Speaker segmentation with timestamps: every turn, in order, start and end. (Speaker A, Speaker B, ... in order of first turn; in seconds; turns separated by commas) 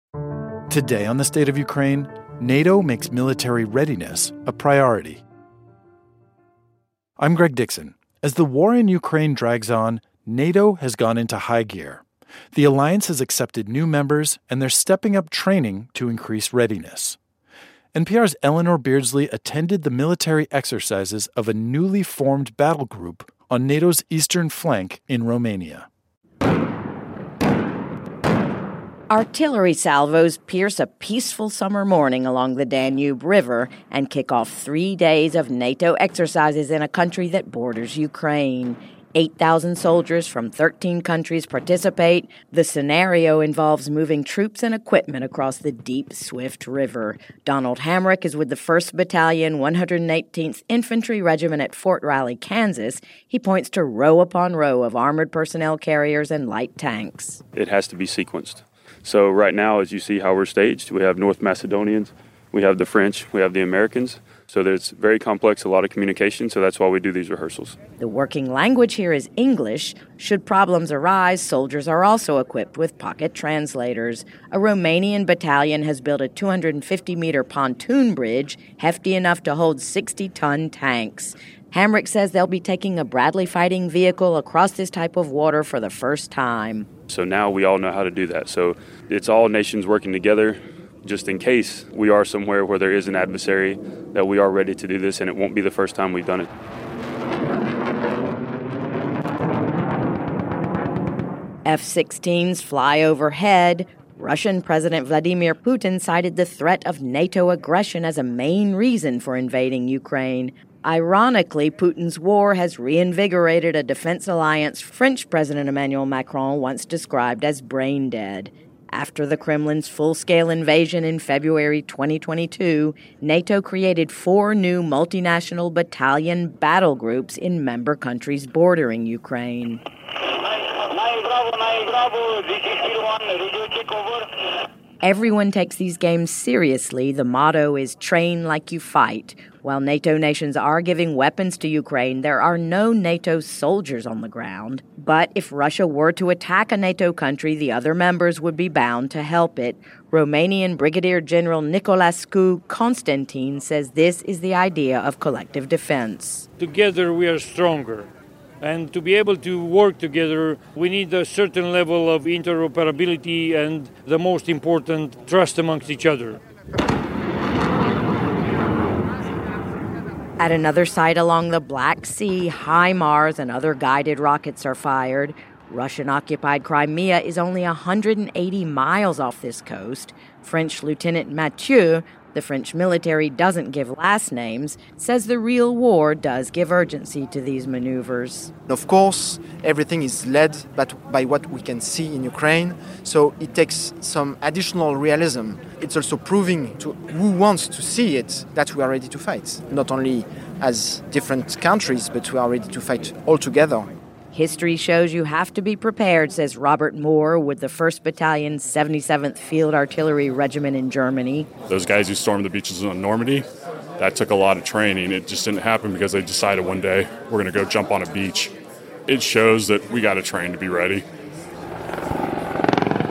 Speaker A: 0.7-5.2, Speaker A: 7.2-17.2, Speaker A: 17.9-25.9, Speaker B: 29.1-57.4, Speaker C: 57.5-67.8, Speaker B: 68.0-86.9, Speaker C: 87.1-96.5, Speaker B: 101.7-129.8, Speaker B: 135.0-156.5, Speaker D: 156.6-158.1, Speaker D: 158.6-166.4, Speaker B: 170.4-188.5, Speaker E: 188.7-203.9, Speaker B: 204.3-211.5, Speaker F: 211.7-213.4, Speaker F: 214.0-218.5, Speaker F: 219.1-221.0